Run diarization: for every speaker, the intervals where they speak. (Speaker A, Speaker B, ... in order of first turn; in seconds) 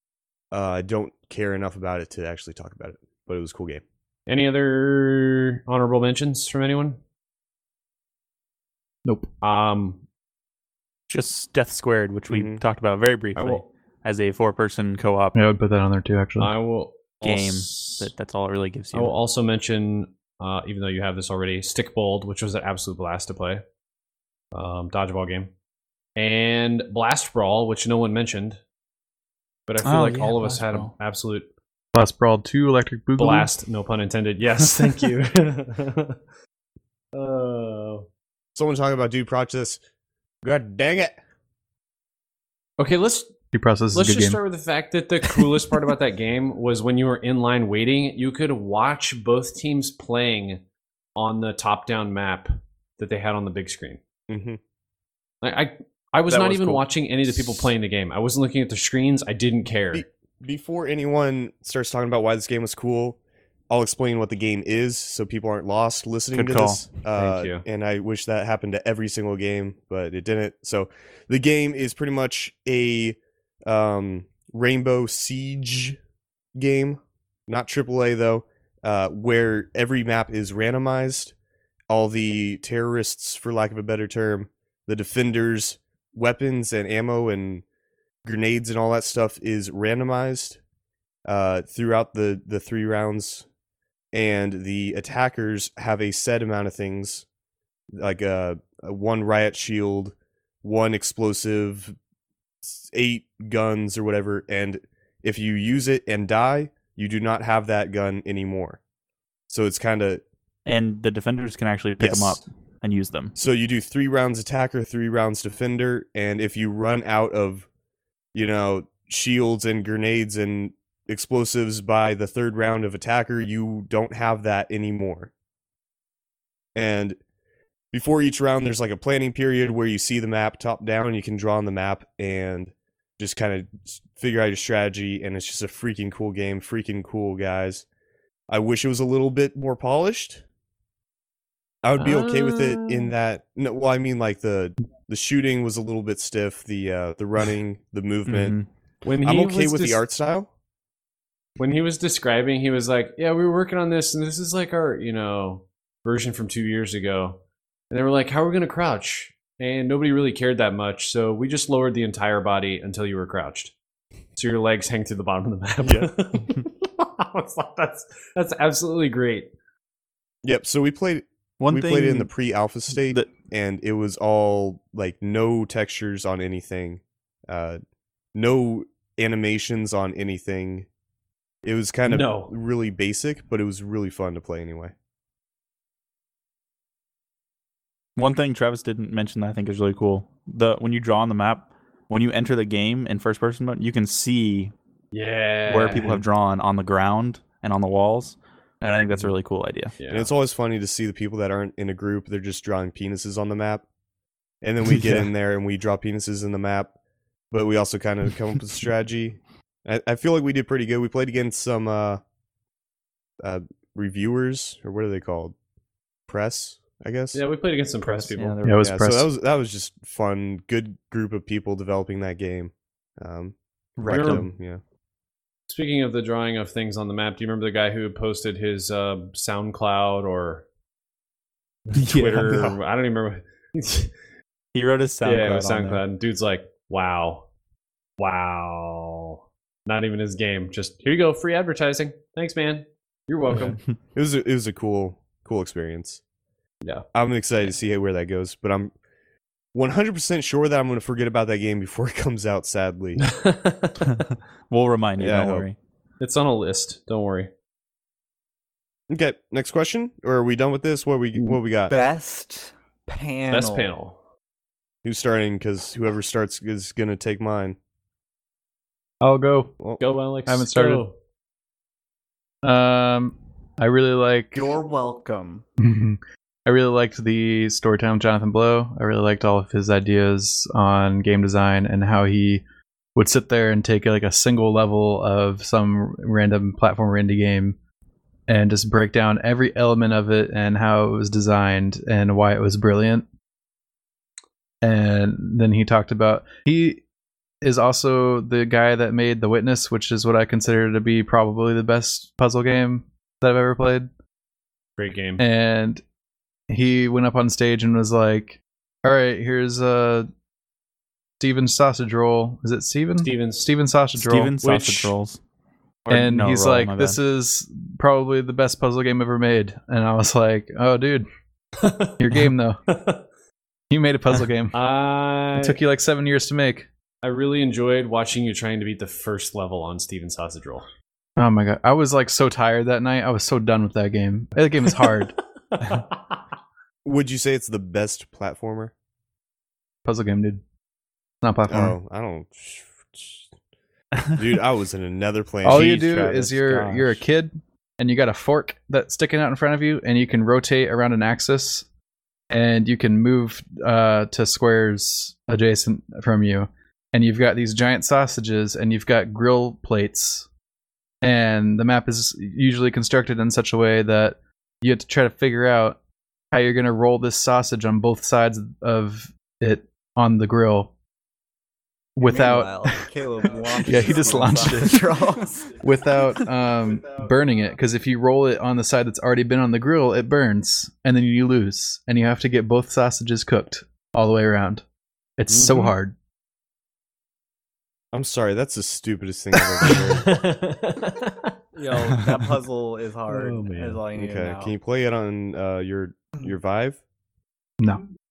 Speaker A: 0.5-3.8, 12.3-12.6, 38.5-39.8, 40.4-41.2, 54.3-54.6, 56.3-57.7, 59.9-63.2, 63.7-76.0, 76.5-81.3, 81.9-87.6, 88.2-90.6, 91.2-93.4, 94.1-97.2, 98.0-101.9, 102.6-108.8, 109.5-110.2, 112.0-112.4, 113.3-117.7, 118.3-125.3, 126.8-127.2, 127.9-137.8, 138.5-140.4, 141.8-148.5, 149.2-150.5, 170.4-177.8, 178.3-180.9, 181.6-184.9, 200.1-203.8, 204.6-206.9, 207.5-212.2, 213.4-215.5, 216.3-217.4, 218.8-224.8, 232.4-232.8, 244.1-246.2, 247.1-248.9, 249.7-253.2, 255.2-255.7, 259.1-261.9, 265.0-267.8, 337.0-338.9, 341.7-343.5, 344.3-346.6, 388.1-390.3, 394.1-397.0
Speaker B: 4.3-7.0, 9.4-10.0, 13.3-13.6, 16.4-18.1, 18.9-23.6, 24.5-25.5, 26.1-28.6, 29.7-31.5, 33.2-36.2, 37.1-38.1, 42.8-43.3, 43.9-50.6, 51.1-54.0, 55.4-60.0, 67.1-67.6, 142.0-143.1, 149.0-150.0, 151.6-163.7, 164.3-169.5, 182.1-182.5, 195.1-196.2, 200.0-200.3, 217.3-218.5, 224.1-224.5, 225.7-230.6, 232.0-234.1, 235.2-237.5, 238.2-243.8, 253.2-254.1, 256.2-257.5, 263.5-264.1, 270.0-271.1, 305.0-305.4, 313.2-313.7, 321.8-323.2, 324.7-325.8, 327.2-330.9, 334.9-336.4, 385.5-385.9, 389.8-392.2, 393.3-394.0
Speaker C: 9.0-9.3, 15.3-16.5, 31.9-33.5, 43.5-44.4, 218.6-219.3, 269.2-269.8, 270.5-271.0, 272.6-274.7, 275.8-282.6, 283.1-287.8, 288.5-293.2, 294.8-297.0, 297.6-304.1, 305.4-306.0, 306.7-310.3, 311.4-315.1, 316.1-321.2, 322.2-322.8, 323.9-324.7, 325.6-326.9, 331.4-335.3, 340.0-340.6, 341.4-342.0, 345.6-351.8, 352.5-360.5, 361.2-366.0, 366.5-370.9, 372.1-372.9, 373.8-375.2, 375.8-384.8, 385.4-386.1, 397.8-398.0
Speaker D: 11.1-15.4, 17.2-19.1, 29.8-30.9, 56.4-56.7, 66.3-66.8, 110.7-113.3, 148.3-148.7, 171.6-172.3, 172.9-173.3, 188.2-194.7, 195.7-199.9, 218.0-219.0, 224.0-224.4, 231.9-232.7, 234.7-236.0, 243.5-243.8, 254.0-255.8, 314.1-315.4, 316.0-317.2, 345.8-347.2
Speaker E: 261.9-263.9, 274.5-275.6, 372.2-375.8, 391.8-394.7